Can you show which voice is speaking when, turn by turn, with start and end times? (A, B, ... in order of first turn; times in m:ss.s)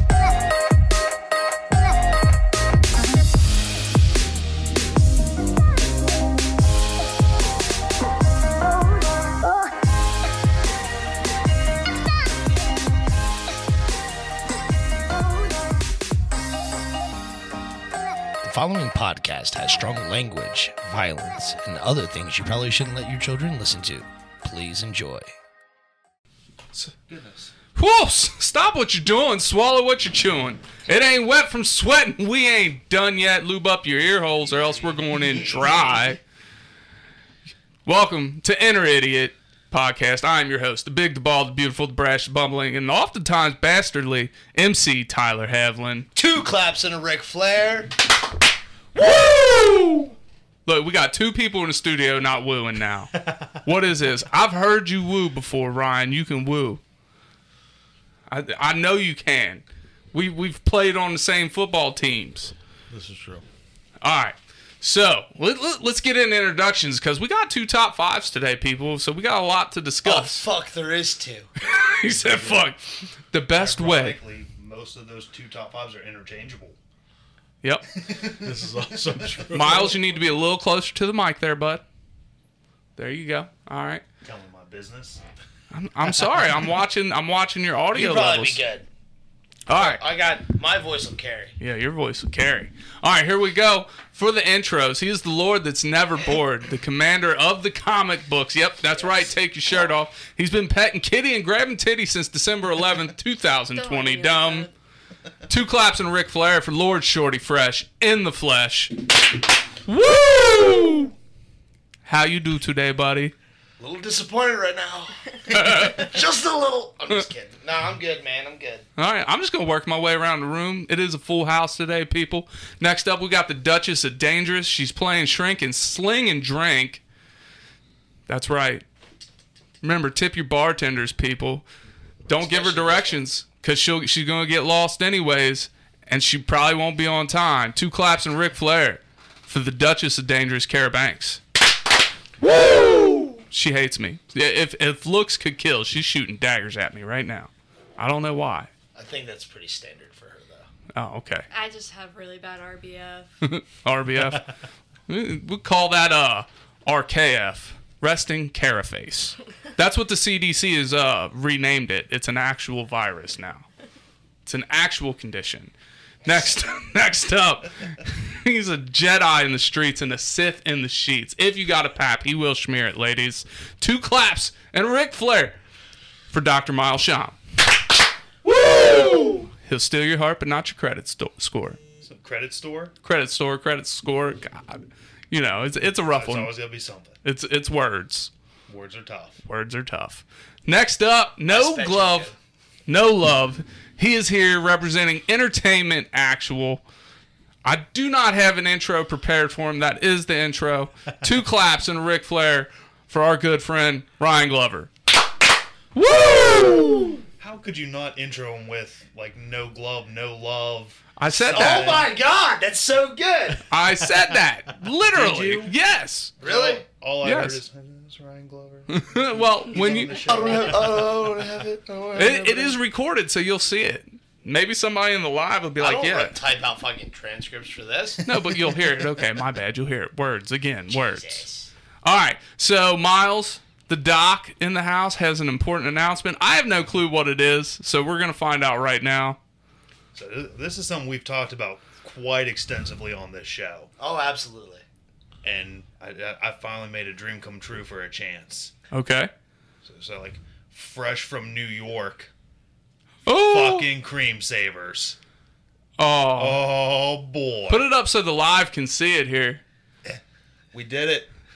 0:18.4-0:25.3 A
0:27.1-0:27.5 B
0:27.7-0:36.2 C
0:34.5-0:35.9 B
0:37.8-0:46.1 C
0:46.1-0:47.9 A
0:48.9-0:50.1 A
0:50.6-0:53.1 C
0:53.2-0:53.5 D
0:53.6-0:56.8 C
0:58.3-1:02.5 C
1:02.9-1:03.4 D
1:04.0-1:10.4 C
1:10.0-1:11.5 A
1:11.6-1:14.2 C
1:12.3-1:12.6 B
1:13.5-1:16.8 B
1:17.9-1:19.4 B
1:18.3-1:19.9 D
1:19.5-1:21.8 C
1:23.0-1:24.0 C
1:24.2-1:25.2 B
1:25.7-1:28.6 C
1:27.9-1:28.9 A
1:29.7-1:30.0 C
1:29.7-1:31.5 A
1:31.6-1:44.7 C
1:38.9-1:39.3 A
1:43.7-1:44.7 E
1:45.5-1:48.9 C
1:49.8-1:51.1 C
1:52.0-1:53.3 C
1:53.8-1:58.8 A
1:55.5-1:56.2 C
1:59.0-2:07.0 C
2:08.3-2:08.8 C
2:09.8-2:11.6 C
2:12.3-2:21.4 C
2:12.4-2:13.2 A
2:23.5-2:28.7 C
2:28.9-2:30.6 A
2:30.9-2:31.4 C
2:31.5-2:33.3 E
2:33.4-2:34.5 C
2:35.1-2:43.6 C
2:44.4-2:45.7 C
2:46.2-2:55.6 C
2:56.3-2:57.4 C
2:58.6-3:01.8 C
3:02.0-3:02.9 B
3:03.0-3:06.5 C
3:06.1-3:07.2 B
3:07.2-3:08.3 C
3:08.7-3:09.4 B
3:09.4-3:12.3 C
3:11.5-3:12.3 A
3:12.9-3:16.8 C
3:17.6-3:24.9 C
3:25.9-3:27.2 C
3:27.4-3:32.1 B
3:31.2-3:32.0 C
3:31.5-3:33.6 A
3:33.7-3:36.3 C
3:35.1-3:35.7 B
3:36.4-3:41.4 B
3:36.4-3:36.8 A
3:37.2-3:37.6 C
3:38.9-3:40.2 C
3:40.1-3:42.8 A
3:42.2-3:46.3 C
3:45.8-3:48.2 A
3:48.2-3:51.4 C
3:50.9-3:51.7 A
3:52.0-3:59.4 C
4:00.1-4:03.9 B
4:04.0-4:04.8 A
4:05.4-4:08.7 B
4:08.9-4:09.3 C
4:09.8-4:12.3 B
4:13.2-4:13.9 C
4:13.3-4:15.2 B
4:16.0-4:16.6 C
4:16.3-4:17.9 B
4:17.7-4:19.6 C
4:20.7-4:21.3 B